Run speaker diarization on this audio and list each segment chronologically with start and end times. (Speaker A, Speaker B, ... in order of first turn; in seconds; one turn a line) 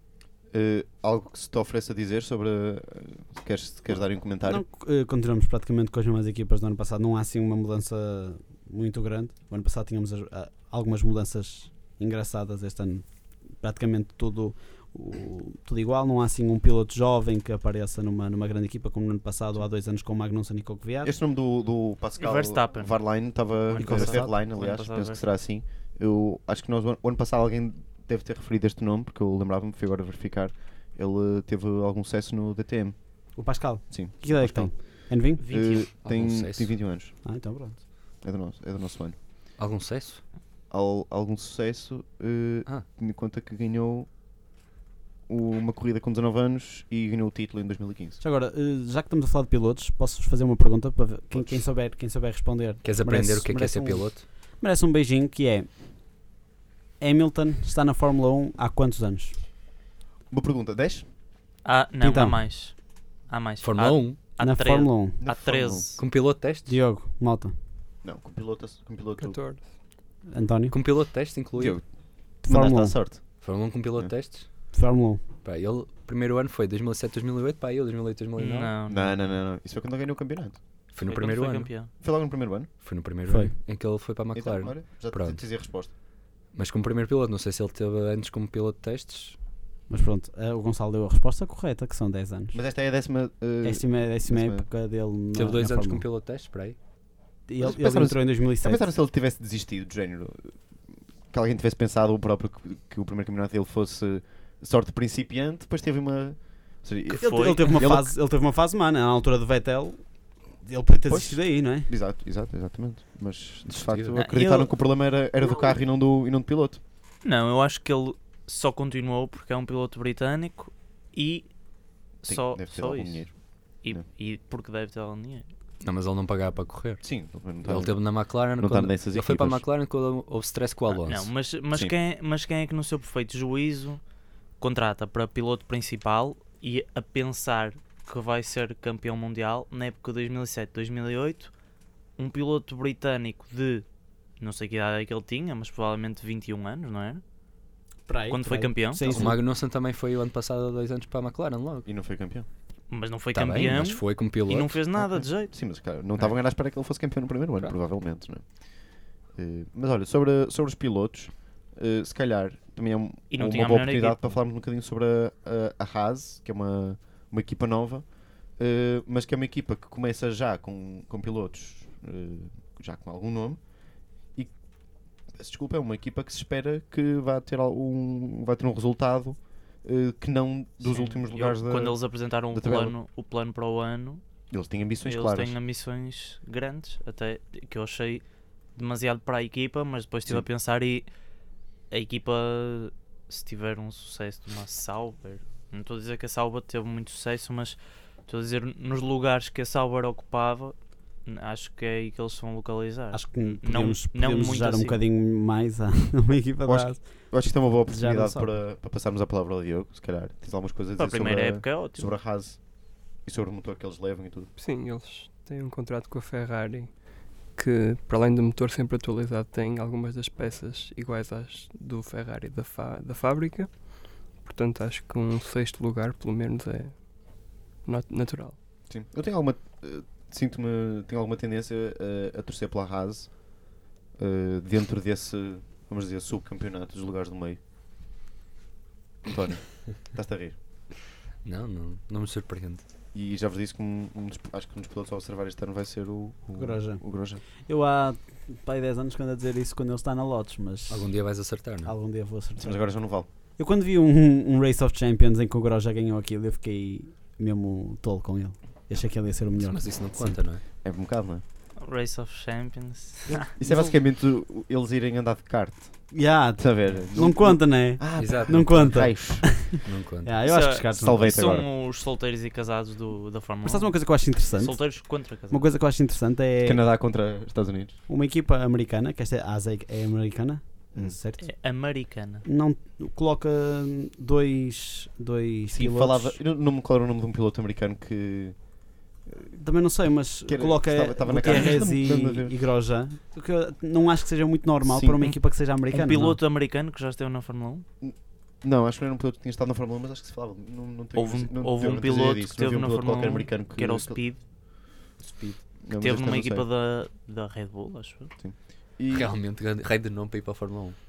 Speaker A: 0.5-4.6
Speaker B: 4.4-13.1
Speaker B: 13.6-21.1
Speaker A: 21.0-32.9
Speaker C: 22.2-25.2
Speaker B: 23.8-24.3
Speaker B: 33.4-35.4
Speaker A: 33.9-34.8
Speaker C: 35.4-35.9
Speaker A: 35.5-37.1
Speaker D: 36.0-36.8
Speaker B: 37.2-37.8
Speaker A: 38.2-39.1
Speaker D: 39.6-40.2
Speaker A: 40.7-44.1
Speaker A: 45.3-48.2
Speaker B: 48.2-55.7
Speaker A: 51.3-51.6
Speaker D: 52.8-54.2
Speaker B: 57.0-59.4
Speaker A: 60.3-61.0
Speaker C: 61.6-62.8
Speaker B: 62.0-62.4
Speaker C: 63.3-66.0
Speaker D: 63.6-64.2
Speaker B: 64.4-65.2
Speaker A: 65.2-65.9
Speaker D: 66.0-66.8
Speaker B: 66.7-67.5
Speaker A: 68.0-69.4
Speaker E: 69.2-69.7
Speaker B: 70.3-70.8
Speaker D: 70.7-71.8
Speaker A: 71.5-73.4
Speaker B: 72.4-73.0
Speaker D: 73.2-74.5
Speaker B: 74.7-75.2
Speaker D: 75.4-78.7
Speaker C: 78.4-79.2
Speaker A: 78.9-80.6
Speaker D: 80.9-81.8
Speaker C: 81.0-81.9
Speaker A: 82.0-82.7
Speaker D: 82.8-85.4
Speaker B: 83.3-83.5
Speaker A: 84.3-85.9
Speaker D: 86.5-89.4
Speaker B: 89.9-92.6
Speaker A: 92.5-94.7
Speaker B: 93.6-96.0
Speaker D: 95.3-96.8
Speaker B: 97.5-98.8
Speaker A: 97.6-100.5
Speaker A: 101.3-108.1
Speaker B: 107.1-110.0
Speaker C: 107.2-107.7
Speaker B: 110.6-111.9
Speaker A: 111.1-116.8
Speaker D: 113.7-114.2
Speaker C: 114.2-114.7
Speaker C: 117.2-121.5
Speaker C: 122.2-125.5
Speaker A: 122.3-123.3
Speaker D: 125.8-131.3
Speaker A: 127.0-129.6
Speaker C: 130.9-134.0
Speaker C: 134.6-141.5
Speaker C: 142.2-143.8
Speaker C: 144.4-147.2
Speaker B: 148.1-149.4
Speaker C: 148.3-149.2
Speaker D: 149.1-151.9
Speaker A: 151.8-152.5
Speaker C: 152.9-155.5
Speaker D: 153.3-154.8
Speaker A: 155.1-158.4
Speaker A: 159.3-168.1
Speaker C: 163.3-164.2
Speaker A: 168.6-173.6
Speaker A: 175.3-182.0
Speaker C: 180.8-184.2
Speaker A: 182.5-182.9
Speaker A: 184.5-185.6
Speaker C: 185.1-188.2
Speaker C: 188.8-191.1
Speaker C: 191.9-205.0
Speaker B: 203.1-208.5
Speaker A: 206.7-212.6
Speaker C: 211.0-212.2
Speaker A: 213.2-214.5
Speaker E: 214.6-217.0
Speaker E: 217.5-227.0
Speaker E: 227.8-228.6
Speaker A: 228.9-233.3
Speaker A: 234.2-237.6
Speaker A: 239.2-240.6
Speaker D: 241.4-242.8
Speaker A: 243.1-247.4
Speaker B: 246.6-247.0
Speaker B: 247.7-251.1
Speaker D: 250.9-251.9
Speaker B: 251.8-252.8
Speaker A: 252.6-253.3
Speaker B: 253.6-259.9
Speaker D: 259.6-260.6
Speaker A: 260.2-261.4
Speaker C: 261.8-263.5
Speaker B: 263.3-263.9
Speaker A: 263.4-269.6
Speaker B: 266.1-271.4
Speaker D: 268.2-269.0
Speaker D: 269.7-270.5
Speaker C: 270.5-275.6
Speaker A: 270.9-271.7
Speaker B: 273.6-276.8
Speaker A: 276.6-278.0
Speaker B: 278.1-281.5
Speaker C: 281.4-282.4
Speaker B: 282.4-286.4
Speaker A: 285.7-288.6
Speaker B: 289.6-296.4
Speaker A: 290.5-292.5
Speaker A: 294.9-295.2
Speaker C: 295.9-297.9
Speaker A: 298.0-304.2
Speaker C: 301.1-304.4
Speaker A: 305.8-306.6
Speaker C: 306.0-308.3
Speaker A: 308.4-309.3
Speaker D: 309.1-310.9